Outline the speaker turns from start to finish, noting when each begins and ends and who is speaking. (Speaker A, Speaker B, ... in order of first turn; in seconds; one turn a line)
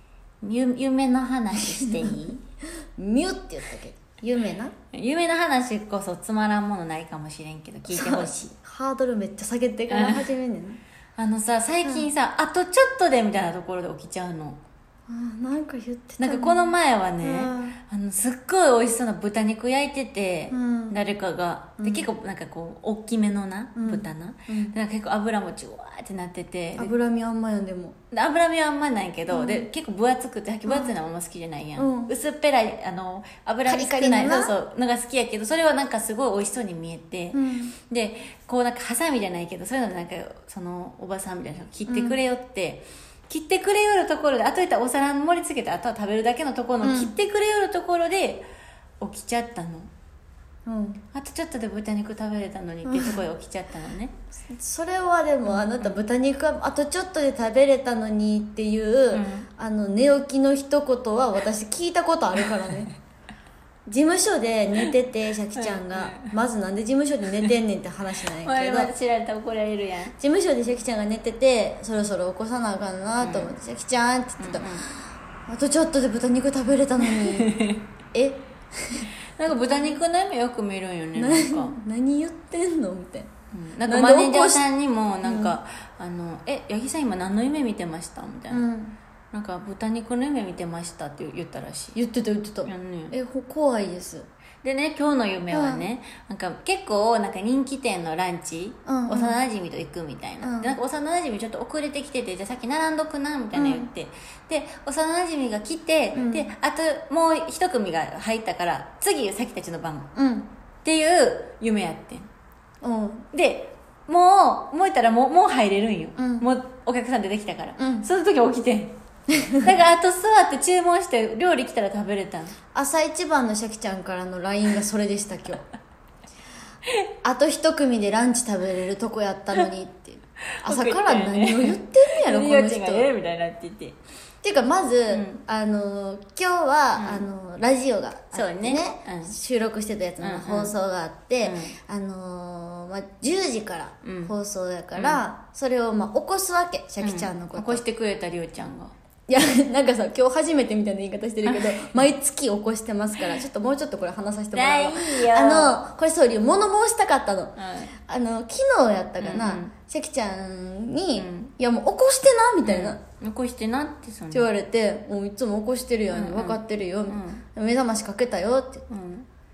Speaker A: 0.4-2.4
Speaker B: 3.0-4.7
Speaker A: 4.9-8.5
Speaker B: 7.9-10.8
Speaker A: 9.9-10.3
Speaker A: 11.2-14.6
Speaker B: 15.1-17.8
Speaker A: 16.2-26.9
Speaker B: 20.5-21.0
Speaker B: 21.8-22.1
Speaker B: 23.8-24.8
Speaker B: 26.8-28.0
Speaker A: 28.1-48.5
Speaker B: 29.3-29.7
Speaker B: 30.7-30.9
Speaker B: 31.8-32.1
Speaker B: 33.7-34.5
Speaker B: 37.3-37.8
Speaker B: 41.9-42.2
Speaker B: 46.8-47.1
Speaker A: 49.0-49.9
Speaker B: 50.7-51.0
Speaker A: 51.1-54.1
Speaker B: 52.9-53.2
Speaker B: 54.5-62.9
Speaker A: 55.5-56.0
Speaker A: 59.1-59.5
Speaker B: 63.9-68.9
Speaker A: 65.6-66.3
Speaker A: 68.4-70.1
Speaker B: 70.2-74.8
Speaker A: 73.2-73.5
Speaker A: 74.4-74.8
Speaker B: 75.5-77.5
Speaker A: 77.2-77.8
Speaker B: 78.1-79.1
Speaker A: 79.4-81.7
Speaker B: 81.2-83.3
Speaker A: 83.5-88.7
Speaker B: 83.9-84.6
Speaker B: 85.2-85.6
Speaker B: 88.5-89.0
Speaker A: 89.3-92.0
Speaker B: 92.0-94.3
Speaker A: 92.7-93.2
Speaker A: 94.6-110.1
Speaker B: 95.5-95.8
Speaker B: 98.9-99.4
Speaker B: 100.4-100.7
Speaker B: 103.5-103.9
Speaker B: 106.1-106.5
Speaker B: 110.2-110.5
Speaker A: 110.8-112.3
Speaker B: 112.8-113.3
Speaker A: 113.3-119.0
Speaker B: 116.2-116.5
Speaker B: 117.8-118.1
Speaker A: 119.6-122.5
Speaker B: 122.8-125.6
Speaker B: 127.2-133.1
Speaker A: 130.7-134.0
Speaker B: 134.4-147.8
Speaker A: 135.1-135.4
Speaker A: 137.0-137.2
Speaker A: 138.3-139.4
Speaker A: 140.2-140.7
Speaker A: 141.4-141.8
Speaker A: 144.0-144.3
Speaker A: 144.9-145.2
Speaker A: 147.0-148.9
Speaker B: 149.3-157.6
Speaker A: 151.4-152.1
Speaker A: 154.5-155.8
Speaker A: 157.6-157.9
Speaker B: 158.1-163.0
Speaker A: 159.2-159.7
Speaker A: 161.2-161.5
Speaker A: 162.6-164.5
Speaker B: 164.3-168.8
Speaker A: 166.1-167.4
Speaker A: 168.9-169.3